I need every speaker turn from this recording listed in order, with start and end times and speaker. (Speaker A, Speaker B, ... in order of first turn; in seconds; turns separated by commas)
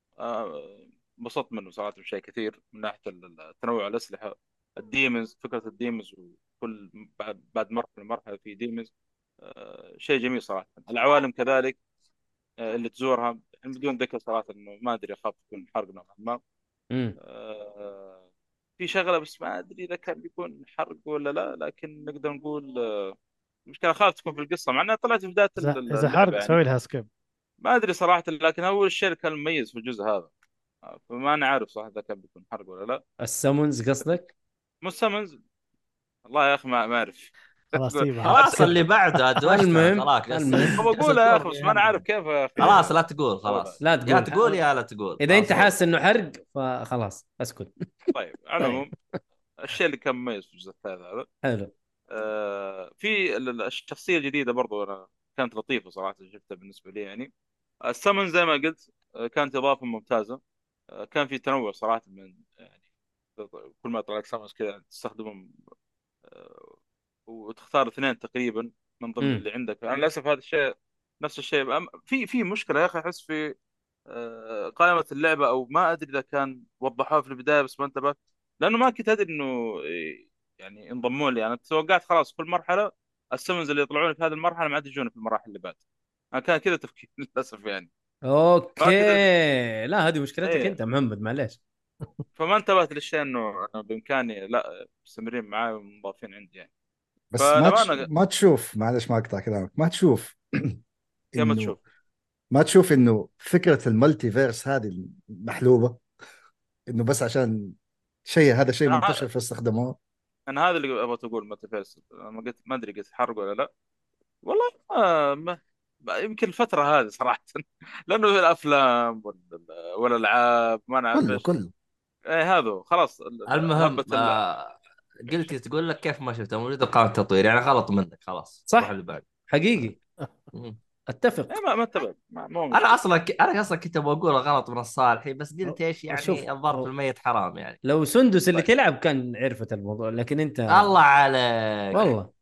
Speaker A: 0.2-8.9, Speaker A: 9.4-11.8, Speaker A: 12.6-16.4, Speaker B: 16.9-17.2, Speaker A: 17.2-18.2, Speaker A: 18.8-23.1, Speaker A: 23.7-26.6, Speaker C: 25.6-27.1, Speaker A: 27.6-30.3, Speaker A: 30.9-33.0, Speaker B: 33.2-34.3, Speaker A: 34.8-35.4, Speaker A: 36.3-38.6, Speaker C: 37.8-38.6, Speaker D: 38.2-41.2, Speaker B: 38.5-38.8, Speaker B: 39.4-41.1, Speaker A: 40.8-43.8, Speaker D: 42.6-45.7, Speaker B: 43.8-44.5, Speaker B: 45.2-47.9, Speaker A: 48.1-48.9, Speaker A: 49.6-51.3, Speaker B: 51.4-51.7, Speaker A: 52.1-57.3, Speaker A: 57.9-60.4, Speaker A: 61.0-62.7, Speaker A: 63.4-65.5, Speaker A: 66.3-66.7, Speaker A: 67.3-73.5, Speaker A: 74.1-85.8, Speaker A: 86.3-87.9, Speaker B: 88.3-91.6, Speaker A: 88.8-89.2, Speaker A: 90.4-90.8, Speaker A: 92.4-96.7, Speaker E: 97.3-100.8, Speaker A: 97.4-98.1, Speaker E: 101.3-101.8, Speaker A: 101.4-101.8, Speaker E: 102.5-106.0, Speaker E: 106.9-107.8, Speaker E: 108.3-110.0, Speaker A: 108.9-109.2, Speaker A: 110.5-113.7, Speaker A: 114.4-121.5, Speaker E: 121.1-121.7, Speaker A: 122.3-124.4, Speaker D: 123.5-129.3, Speaker B: 128.7-128.9, Speaker B: 129.5-130.0, Speaker B: 131.1-131.6, Speaker A: 131.5-133.0, Speaker D: 132.7-137.8, Speaker B: 136.1-136.9, Speaker B: 137.8-141.0, Speaker D: 140.7-142.1, Speaker B: 141.9-142.3